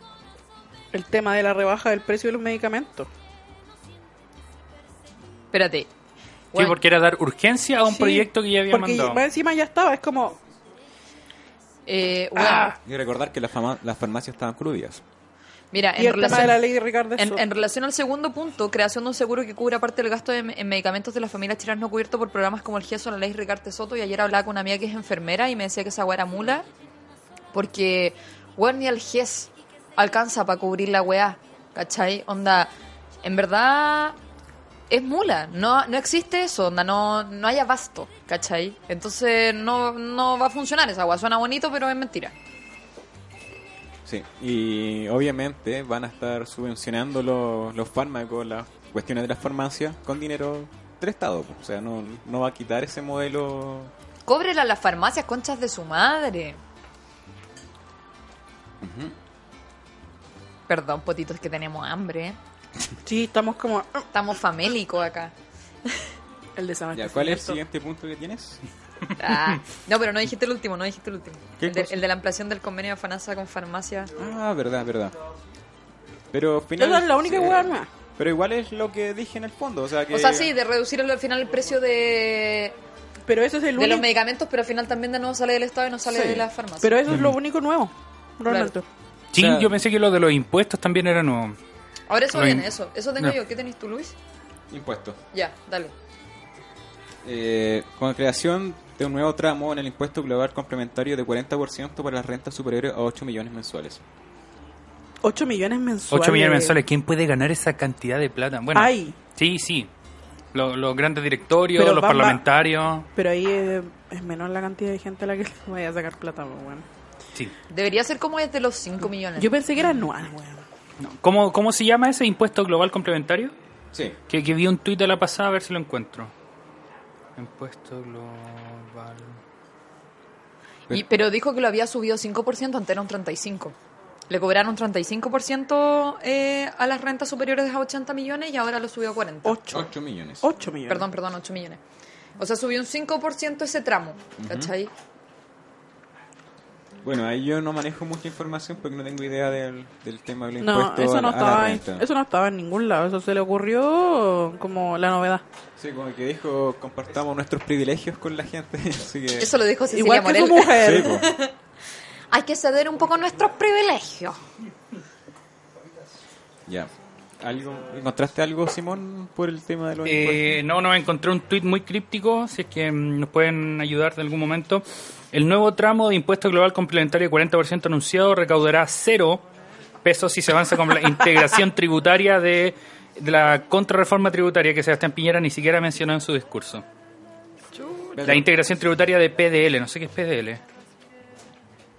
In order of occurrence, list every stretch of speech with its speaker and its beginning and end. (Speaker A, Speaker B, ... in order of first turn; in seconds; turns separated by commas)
Speaker A: 0.9-3.1, Speaker B: 5.5-5.9, Speaker B: 6.5-6.8, Speaker C: 6.5-9.2, Speaker A: 7.9-10.4, Speaker B: 11.9-12.8, Speaker A: 12.4-12.7, Speaker D: 12.8-15.0, Speaker B: 15.7-16.6, Speaker A: 16.0-17.4, Speaker B: 17.2-26.7, Speaker B: 27.5-32.7, Speaker B: 33.2-34.2, Speaker B: 34.9-42.3, Speaker D: 44.0-53.9, Speaker B: 54.3-56.6, Speaker D: 58.8-59.1, Speaker B: 60.7-62.4, Speaker A: 63.0-64.1, Speaker B: 64.1-65.3, Speaker A: 66.6-67.6, Speaker D: 66.9-68.6, Speaker B: 69.2-74.1, Speaker D: 71.6-72.0, Speaker D: 74.2-75.2, Speaker D: 76.3-80.5, Speaker A: 76.8-77.9, Speaker B: 80.1-82.8, Speaker A: 83.3-84.1, Speaker B: 83.8-87.1, Speaker D: 86.1-86.5, Speaker A: 86.8-88.9, Speaker C: 87.1-87.4, Speaker B: 88.5-88.7, Speaker C: 89.3-91.6, Speaker D: 89.3-89.8, Speaker B: 92.1-94.2, Speaker C: 92.3-92.7, Speaker D: 94.7-95.2, Speaker B: 95.3-95.9, Speaker D: 97.2-104.0, Speaker A: 105.2-106.8, Speaker C: 106.1-109.9, Speaker A: 108.7-109.2, Speaker C: 110.5-113.1, Speaker A: 111.8-112.4, Speaker A: 113.2-116.9, Speaker B: 117.7-119.5, Speaker A: 119.4-120.6, Speaker C: 121.0-123.5, Speaker C: 124.3-126.3, Speaker C: 127.4-129.4, Speaker D: 130.9-131.2, Speaker B: 130.9-133.8, Speaker B: 134.3-139.6, Speaker A: 139.4-139.9, Speaker D: 139.7-140.4, Speaker A: 140.4-141.1, Speaker B: 140.9-141.8, Speaker B: 142.4-144.9, Speaker D: 144.4-144.7, Speaker D: 147.0-152.1, Speaker A: 150.6-155.4, Speaker D: 155.8-159.6, Speaker B: 159.4-161.5, Speaker A: 159.9-161.2, Speaker D: 160.7-161.2, Speaker B: 162.3-164.4, Speaker D: 167.4-170.6, Speaker C: 170.0-179.5, Speaker C: 180.0-186.8, Speaker B: 187.8-188.2, Speaker D: 188.2-188.5, Speaker C: 188.2-190.6